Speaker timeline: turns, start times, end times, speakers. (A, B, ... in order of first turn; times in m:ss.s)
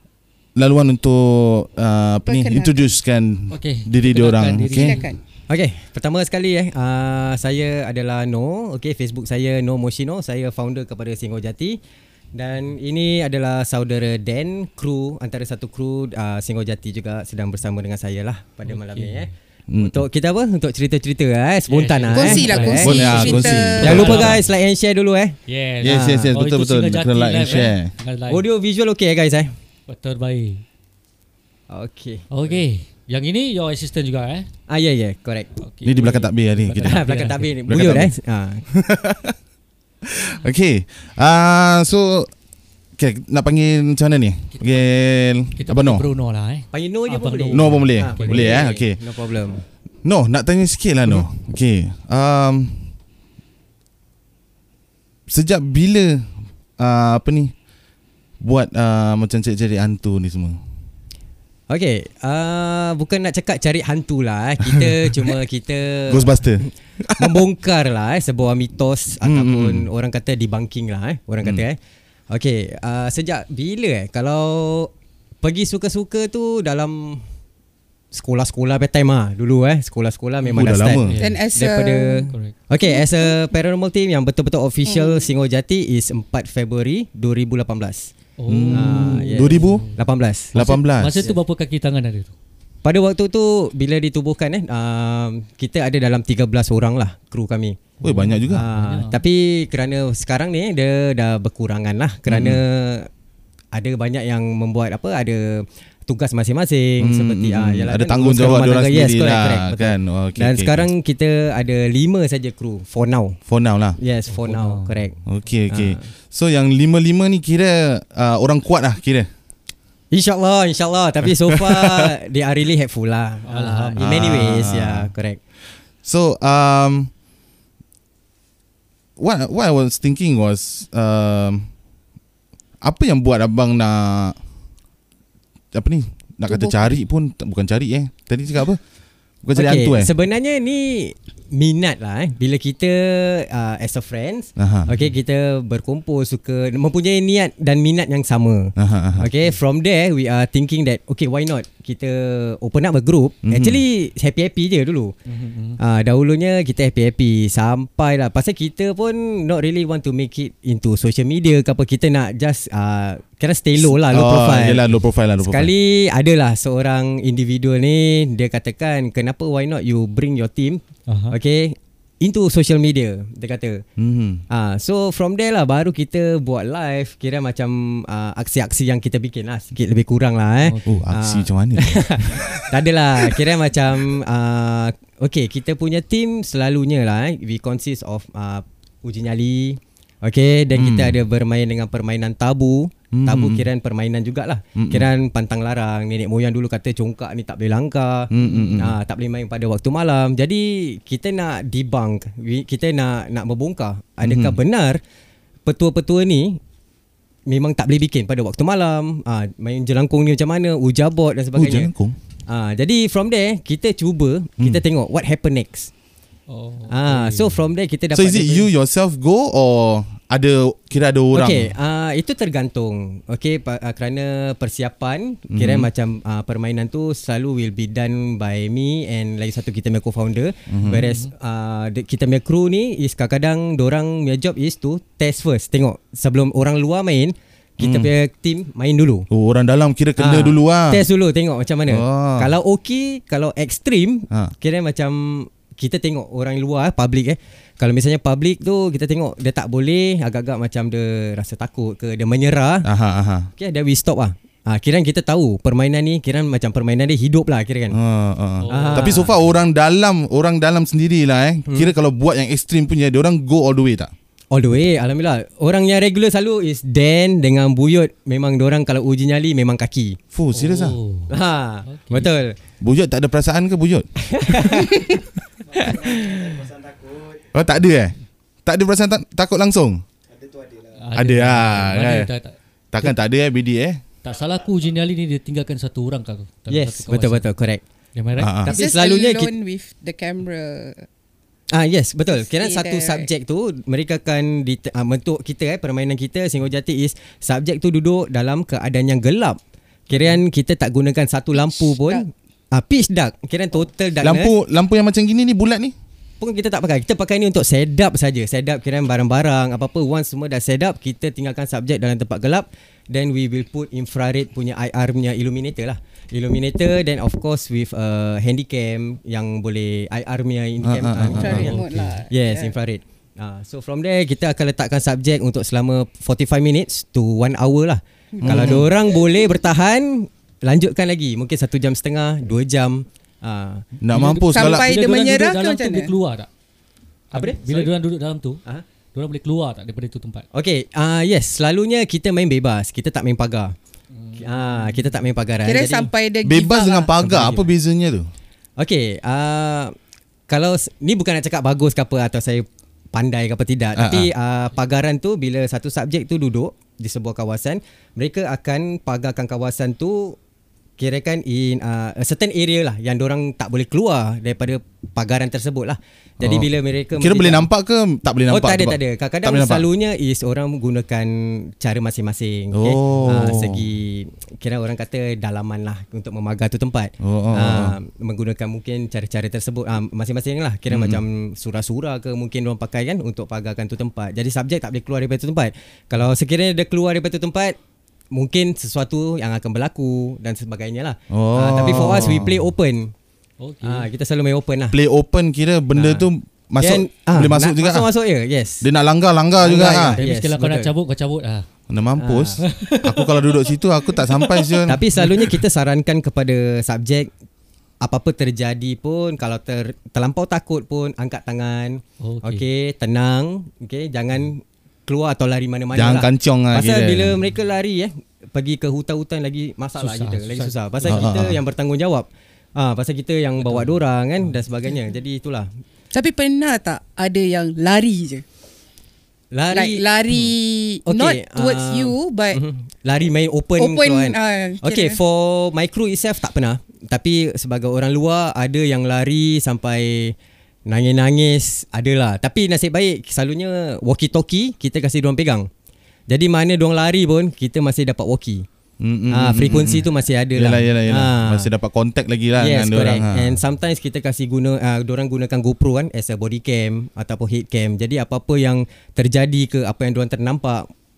0:00.6-0:05.0 A
0:02.2-0:02.9 B
0:03.5-0:05.1 C
0:04.8-0:05.2 B
0:05.5-0:11.8 D
0:12.3-0:23.0 D
0:18.7-0:19.3 C
0:19.7-0:20.0 A
0:21.7-0:24.4 C
0:22.1-0:24.2 B
0:22.8-0:24.4 A
0:23.8-0:26.3 D
0:25.5-0:28.4 C
0:25.8-0:27.9 A
0:28.3-0:29.5 D
0:29.9-0:30.6 C
0:31.7-0:32.2 D
0:32.3-0:34.5 C
0:34.7-0:35.5 D
0:35.6-0:37.5 C
0:35.8-0:37.0 A
0:36.8-0:38.6 D
0:37.6-0:38.1 A
0:38.7-0:39.4 A
0:40.0-0:42.3 A
0:43.0-0:46.0 A
0:44.5-0:44.8 C
0:45.6-0:48.6 C
0:46.7-0:49.6 D
0:47.5-0:49.0 A
0:50.0-0:52.9 A
0:55.3-0:57.5 A
0:58.4-1:00.6 A
1:01.7-1:11.8 D
1:04.6-1:05.3 A
1:06.1-1:07.4 A
1:09.2-1:09.9 A
1:12.3-1:17.2 D
1:18.1-1:28.1 D
1:20.5-1:21.2 A
1:21.0-1:21.4 C
1:21.2-1:23.3 B
1:24.8-1:25.3 B
1:28.4-1:32.3 C
1:28.5-1:29.8 A
1:28.7-1:30.5 D
1:30.5-1:31.2 A
1:32.8-1:37.8 D
1:38.0-1:39.2 C
1:38.0-1:38.6 A
1:38.5-1:43.1 D
1:42.3-1:42.6 A
1:43.7-1:53.4 D
1:47.0-1:50.9 A
1:53.5-1:54.0 A
1:54.0-1:55.2 D
1:54.3-1:55.0 C
1:55.2-1:59.3 A
1:55.7-1:56.1 D
2:00.1-2:05.4 D
2:01.4-2:02.1 A
2:03.5-2:04.1 C
2:04.0-2:05.1 A
2:06.0-2:07.1 A
2:09.2-2:11.7 A
2:12.8-2:14.4 A
2:15.7-2:18.8 A
2:16.5-2:17.0 B
2:19.4-2:20.1 A
2:19.5-2:35.1 D
2:24.6-2:24.9 A
2:28.8-2:29.3 A
2:33.4-2:33.8 A
2:35.3-2:35.8 C
2:35.8-2:44.8 D
2:43.8-2:45.7 A
2:45.4-2:53.8 D
2:51.1-2:51.3 C
2:54.0-2:54.4 A
2:54.5-3:25.0 D
3:00.6-3:01.0 C
3:00.8-3:02.6 A
3:10.7-3:11.2 A
3:13.1-3:13.7 A
3:14.8-3:15.1 A
3:18.3-3:18.9 A
3:18.4-3:18.7 C
3:24.2-3:24.6 A
3:25.6-3:26.6 D
3:27.5-3:31.9 D
3:31.5-3:32.2 A
3:32.5-3:35.9 D
3:36.5-3:37.6 C
3:36.9-3:38.7 D
3:38.1-3:41.7 A
3:41.3-3:59.3 D
3:45.5-3:45.9 A
3:50.7-3:51.1 A
3:51.0-3:51.3 C
3:57.8-3:58.1 A
3:59.3-4:01.0 A
4:00.2-4:12.9 D
4:01.9-4:02.5 A
4:12.8-4:13.5 A
4:13.6-4:18.0 D
4:17.9-4:24.1 A
4:18.6-4:19.3 C
4:18.7-4:19.3 D
4:24.5-4:30.2 D
4:30.3-4:31.0 A
4:30.5-4:31.3 C
4:31.3-4:32.6 D
4:31.9-4:32.3 C
4:32.8-4:34.1 A
4:34.3-4:35.0 D
4:35.7-4:36.6 D
4:37.4-4:38.1 A
4:38.6-4:40.0 A
4:40.9-4:43.1 C
4:41.1-4:42.3 A
4:42.9-4:44.0 A
4:44.2-4:47.4 C
4:46.7-4:47.8 D
4:48.1-4:48.6 C
4:48.4-4:48.7 A
4:48.7-4:49.5 D
4:48.7-4:51.0 B
4:51.7-4:59.6 D
4:52.3-4:53.3 B
5:00.1-5:04.5 D
5:00.1-5:00.4 C
5:01.5-5:02.2 B
5:04.2-5:05.9 A
5:06.4-5:33.8 D
5:20.8-5:22.0 A
5:21.3-5:22.7 B
5:21.4-5:22.1 C
5:28.3-5:29.3 B
5:28.4-5:28.9 A
5:34.0-5:34.9 A
5:34.1-5:36.5 C
5:34.5-5:36.1 B
5:37.3-5:37.9 D
5:37.3-5:38.6 C
5:39.1-5:40.4 C
5:40.5-5:43.7 D
5:44.2-5:45.1 C
5:44.4-5:46.1 D
5:45.6-5:47.1 B
5:46.4-5:48.3 A
5:47.2-5:47.7 D
5:48.8-5:49.9 D
5:50.5-6:00.4 D
5:54.0-5:54.3 A
6:01.0-6:07.7 D
6:06.4-6:09.8 A
6:08.5-6:27.8 D
6:12.7-6:13.8 A
6:17.2-6:18.0 A
6:20.9-6:21.2 A
6:28.3-6:33.1 D
6:31.3-6:32.6 A
6:33.6-6:34.1 C
6:33.8-6:35.0 D
6:34.9-6:38.1 A
6:35.9-6:36.2 D
6:36.8-6:38.8 D
6:38.8-6:40.2 A
6:39.6-6:40.9 D
6:40.1-6:41.6 C
6:41.9-6:45.0 A
6:42.2-6:42.6 D
6:42.6-6:45.6 C
6:44.9-6:47.3 D
6:48.0-7:05.7 D
6:52.2-6:52.6 C
6:55.9-6:57.4 A
7:00.0-7:01.3 C
7:01.0-7:01.6 A
7:03.6-7:04.6 C
7:06.1-7:08.4 B
7:09.5-7:10.4 D
7:09.7-7:12.6 B
7:11.0-7:20.3 D
7:13.8-7:15.2 B
7:20.9-7:25.7 D
7:26.3-7:28.7 D
7:29.0-7:33.6 A
7:29.3-7:31.7 D
7:32.6-7:40.9 D